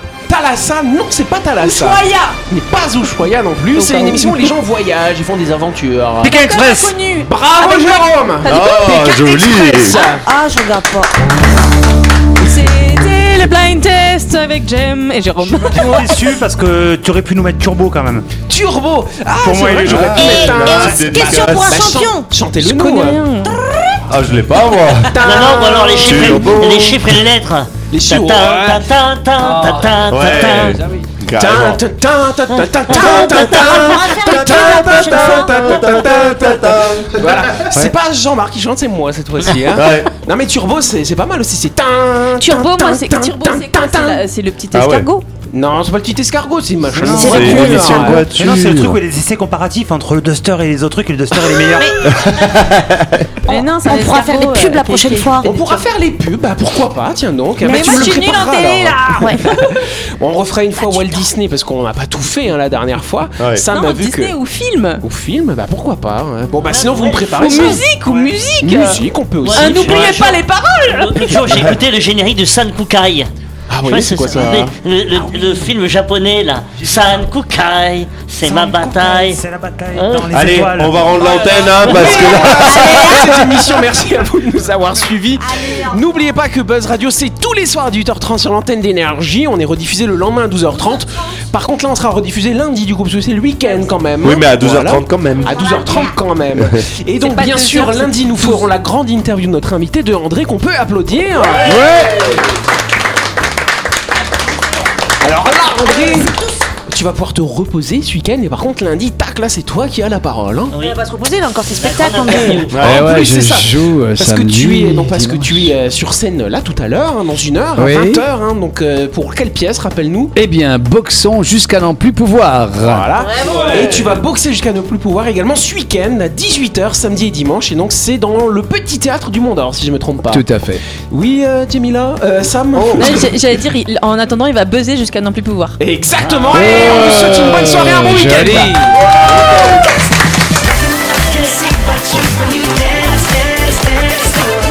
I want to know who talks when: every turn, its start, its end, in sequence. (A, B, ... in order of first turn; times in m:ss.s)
0:00.3-0:06.4 A
0:01.6-0:02.4 B
0:03.8-0:04.5 C
0:06.2-0:07.0 D
0:06.2-0:09.2 C
0:07.2-0:10.2 A
0:08.4-0:10.0 E
0:09.8-0:11.2 B
0:12.4-0:16.3 C
0:15.5-0:18.3 D
0:18.5-0:23.2 A
0:19.4-0:20.2 D
0:19.8-0:21.9 E
0:20.1-0:22.3 B
0:21.0-0:21.5 D
0:22.6-0:23.6 C
0:24.1-0:25.4 E
0:25.0-0:26.8 A
0:25.2-0:30.8 F
0:26.0-0:27.1 E
0:27.9-0:28.9 A
0:29.4-0:30.0 G
0:30.1-0:31.8 E
0:31.4-0:44.2 A
0:32.5-0:34.0 F
0:32.9-0:36.1 B
0:34.2-0:37.7 E
0:39.7-0:40.1 E
0:42.4-0:45.3 C
0:44.7-0:45.1 E
0:45.5-0:48.3 A
0:46.9-0:47.6 D
0:47.1-0:48.2 B
0:47.2-0:49.0 E
0:48.3-0:52.0 D
0:51.6-0:52.3 B
0:52.0-0:53.4 E
0:53.5-0:55.8 C
0:53.5-0:55.6 B
0:55.4-1:04.4 A
0:57.6-0:58.5 B
0:57.6-0:59.8 C
0:59.1-0:59.4 B
1:03.4-1:03.6 E
1:03.6-1:05.0 C
1:05.0-1:07.9 A
1:06.6-1:07.9 F
1:07.3-1:11.4 C
1:08.6-1:10.3 A
1:09.4-1:13.3 F
1:11.5-1:11.8 E
1:13.7-1:14.8 A
1:13.8-1:19.4 F
1:15.3-1:15.6 D
1:16.8-1:17.1 D
1:18.4-1:21.4 D
1:19.9-1:20.4 F
1:20.3-1:23.4 E
1:21.8-1:22.1 F
1:21.8-1:42.3 A
1:21.9-1:23.5 B
1:25.4-1:26.0 B
1:34.2-1:35.6 E
1:35.4-1:36.2 B
1:36.6-1:36.8 E
1:37.2-1:38.7 C
1:41.4-1:42.0 F
1:41.7-1:42.4 E
1:45.2-1:50.8 A
1:50.7-1:51.0 F
1:50.9-1:52.7 B
1:51.7-1:52.8 F
1:52.3-2:00.3 A
1:52.7-1:53.1 E
1:52.8-1:55.8 G
1:57.8-1:58.2 G
2:00.4-2:03.1 G
2:02.8-2:10.4 A
2:03.2-2:04.0 B
2:10.3-2:10.8 G
2:11.1-2:13.3 A
2:12.7-2:13.2 E
2:13.0-2:15.8 C
2:15.8-2:19.0 A
2:16.5-2:18.8 G
2:19.0-2:19.8 E